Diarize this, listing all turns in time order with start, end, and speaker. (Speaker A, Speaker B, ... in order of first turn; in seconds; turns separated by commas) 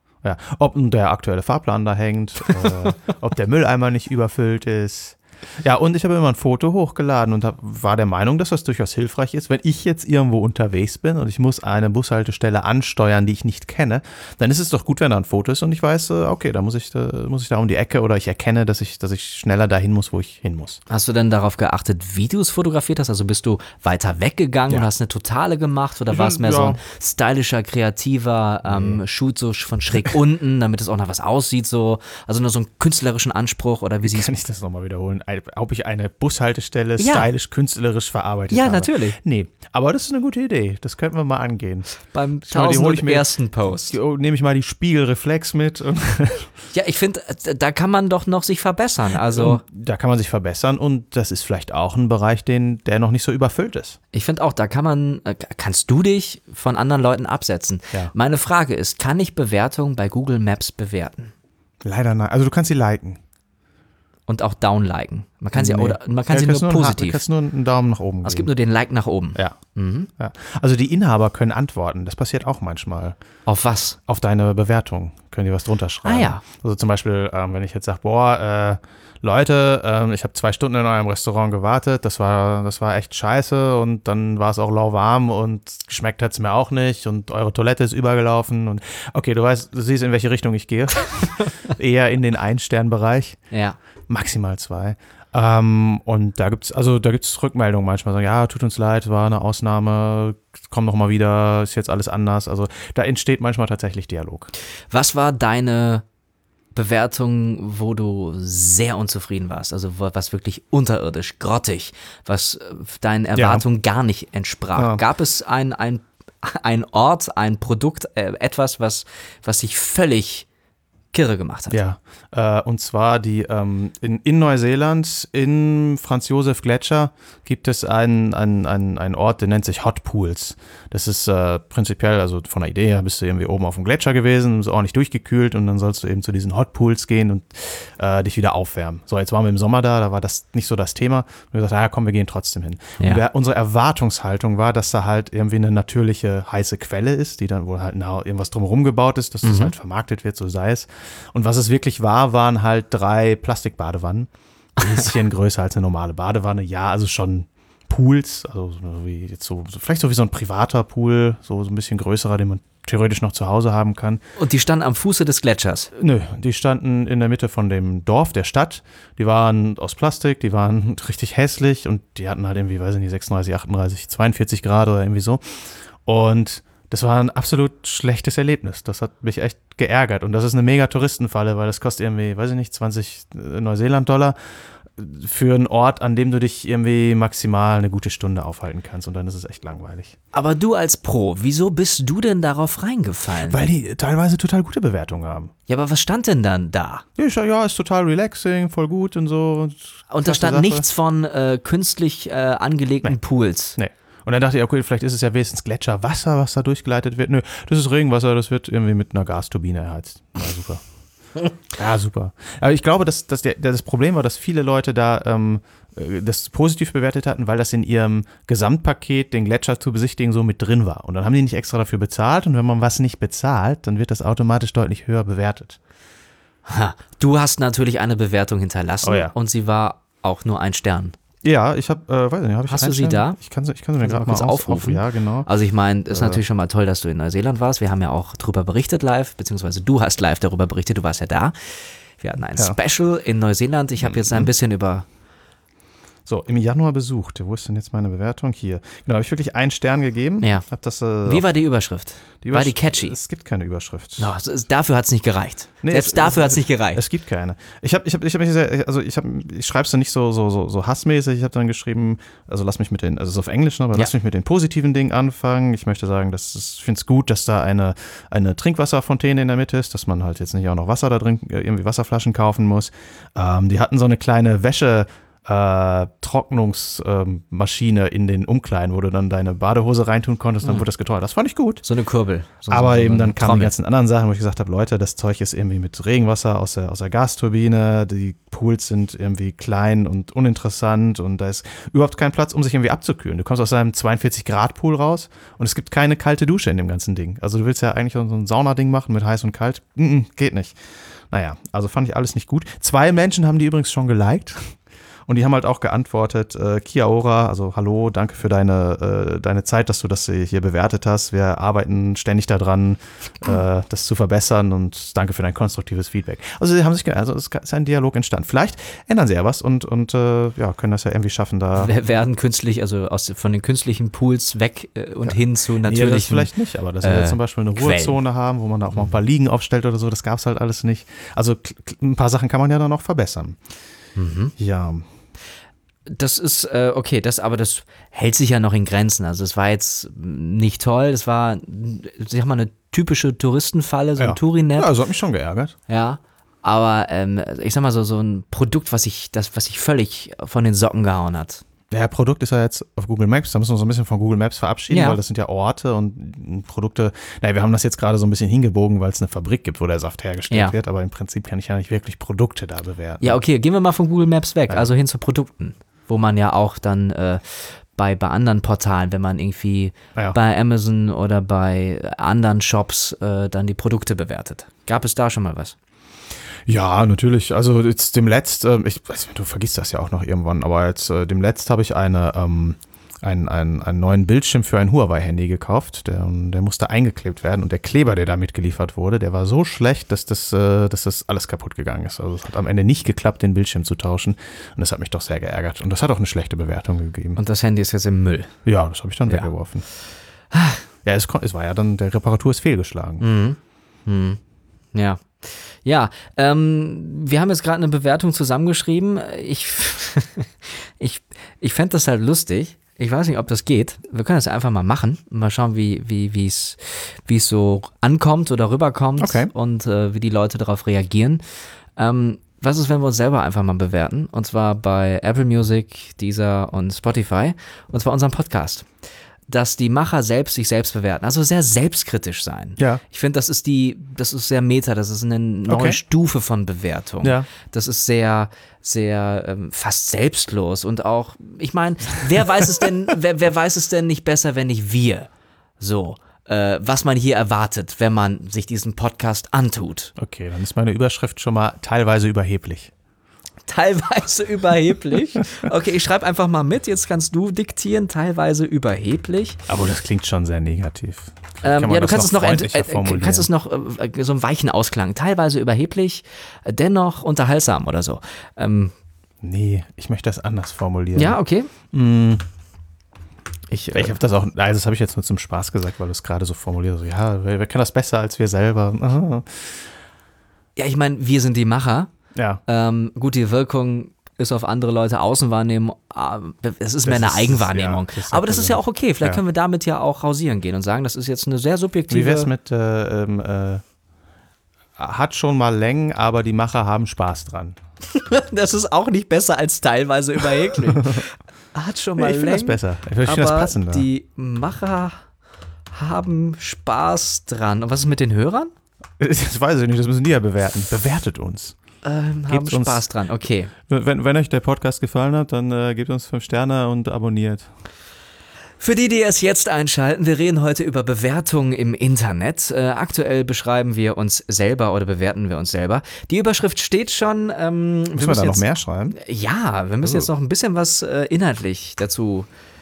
Speaker A: 0.2-20.8, Speaker B: 2.5-2.9, Speaker B: 20.9-34.3, Speaker A: 26.1-26.8, Speaker A: 28.7-29.0, Speaker A: 34.0-41.9, Speaker B: 37.0-37.3, Speaker B: 38.5-39.2, Speaker B: 42.1-44.0, Speaker A: 42.5-46.5, Speaker B: 46.7-49.6, Speaker A: 49.1-54.0, Speaker B: 54.1-61.3, Speaker A: 61.8-63.2, Speaker B: 64.3-67.2, Speaker A: 65.5-68.5, Speaker B: 68.2-70.1, Speaker A: 70.2-73.2, Speaker B: 73.5-74.0, Speaker A: 74.1-93.4, Speaker B: 76.0-76.4, Speaker B: 93.5-93.8, Speaker A: 94.1-104.5, Speaker B: 104.9-106.0, Speaker B: 106.7-120.5, Speaker A: 113.4-113.6, Speaker A: 114.8-115.0, Speaker B: 121.1-121.8, Speaker A: 121.7-164.2, Speaker B: 149.4-149.7, Speaker B: 164.4-165.9, Speaker A: 165.9-184.4, Speaker A: 185.0-190.1, Speaker B: 190.3-193.6, Speaker A: 193.4-195.5, Speaker B: 195.7-197.0, Speaker A: 197.2-200.8, Speaker B: 200.1-203.8, Speaker A: 203.8-210.8, Speaker A: 211.7-225.8, Speaker B: 226.7-231.1, Speaker A: 229.0-229.3, Speaker A: 231.4-235.5, Speaker B: 232.7-233.4, Speaker B: 234.0-245.1, Speaker A: 236.1-236.4, Speaker A: 244.0-244.5, Speaker A: 246.3-251.5, Speaker B: 251.2-253.2, Speaker A: 252.4-254.3, Speaker B: 254.2-257.0, Speaker A: 255.8-281.8, Speaker B: 281.8-283.7, Speaker A: 282.7-300.8, Speaker A: 301.3-321.9, Speaker B: 321.8-328.2, Speaker A: 325.2-333.6, Speaker B: 328.9-329.2, Speaker B: 334.2-334.5, Speaker A: 334.6-335.1, Speaker B: 336.1-344.9, Speaker A: 344.2-345.7, Speaker B: 345.9-351.6, Speaker A: 351.9-363.4, Speaker B: 354.9-355.2, Speaker B: 360.5-360.7, Speaker B: 363.2-375.7, Speaker A: 376.7-397.4, Speaker B: 397.4-398.5, Speaker A: 398.7-399.9, Speaker B: 400.5-400.8, Speaker A: 401.1-403.2, Speaker B: 403.2-404.4, Speaker B: 404.9-421.4, Speaker A: 419.2-419.5, Speaker B: 421.9-428.9, Speaker B: 429.5-445.3, Speaker A: 432.8-433.0, Speaker A: 435.7-436.0, Speaker A: 437.2-437.5, Speaker B: 445.8-450.1, Speaker A: 450.2-452.9, Speaker B: 453.7-459.6, Speaker A: 459.7-463.5, Speaker B: 461.6-468.9, Speaker A: 469.4-471.4, Speaker B: 471.1-471.7, Speaker A: 471.9-472.4, Speaker B: 473.7-474.2, Speaker A: 473.9-479.8, Speaker B: 480.8-482.1, Speaker A: 482.4-482.6, Speaker B: 482.7-492.5, Speaker A: 487.1-489.4, Speaker A: 492.1-493.8, Speaker A: 495.0-497.8, Speaker B: 498.1-505.2, Speaker A: 500.7-501.2, Speaker A: 502.2-504.1, Speaker B: 505.9-508.7, Speaker A: 509.2-511.8, Speaker B: 512.0-513.7, Speaker A: 512.5-513.1, Speaker A: 513.9-517.7, Speaker B: 518.8-532.5, Speaker A: 528.2-529.2, Speaker A: 530.0-530.3